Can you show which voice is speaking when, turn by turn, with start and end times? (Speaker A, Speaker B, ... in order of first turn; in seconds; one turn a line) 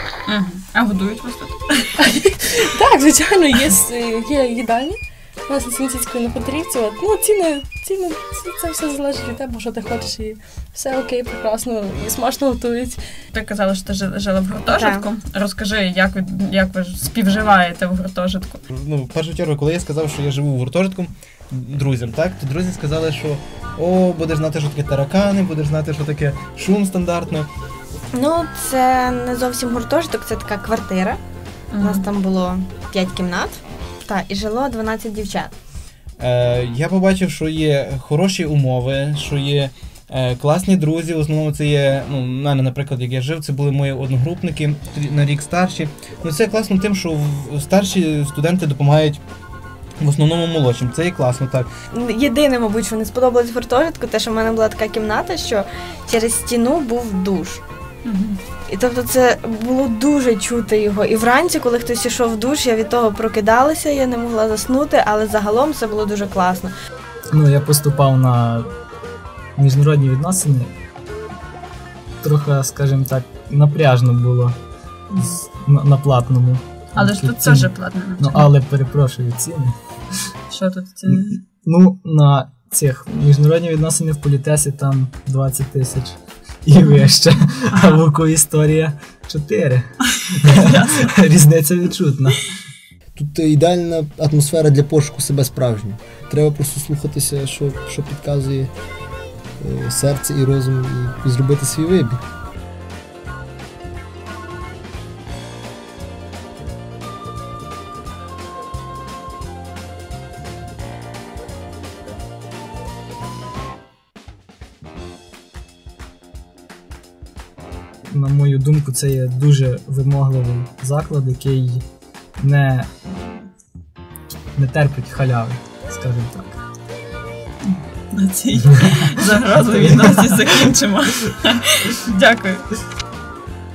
Speaker A: 0.3-1.9
Speaker B: 2.1-13.0
Speaker A: 13.3-18.6
Speaker C: 14.7-15.0
Speaker D: 18.7-27.5
Speaker C: 28.1-31.2
Speaker A: 31.7-32.1
Speaker C: 31.8-35.5
Speaker D: 36.2-49.2
Speaker D: 50.0-51.7
Speaker C: 51.9-57.6
Speaker A: 58.0-58.4
Speaker C: 58.7-66.7
Speaker E: 67.3-68.7
Speaker E: 69.5-70.7
Speaker E: 72.2-74.6
Speaker A: 75.1-75.4
Speaker E: 75.2-79.7
Speaker A: 77.0-78.5
Speaker A: 80.5-81.4
Speaker E: 81.1-89.9
Speaker A: 90.4-91.0
Speaker E: 90.4-92.4
Speaker F: 93.1-98.7
Speaker F: 99.6-102.2
Speaker E: 118.1-121.8
Speaker E: 122.4-123.2
Speaker E: 124.5-126.6
Speaker A: 127.7-132.6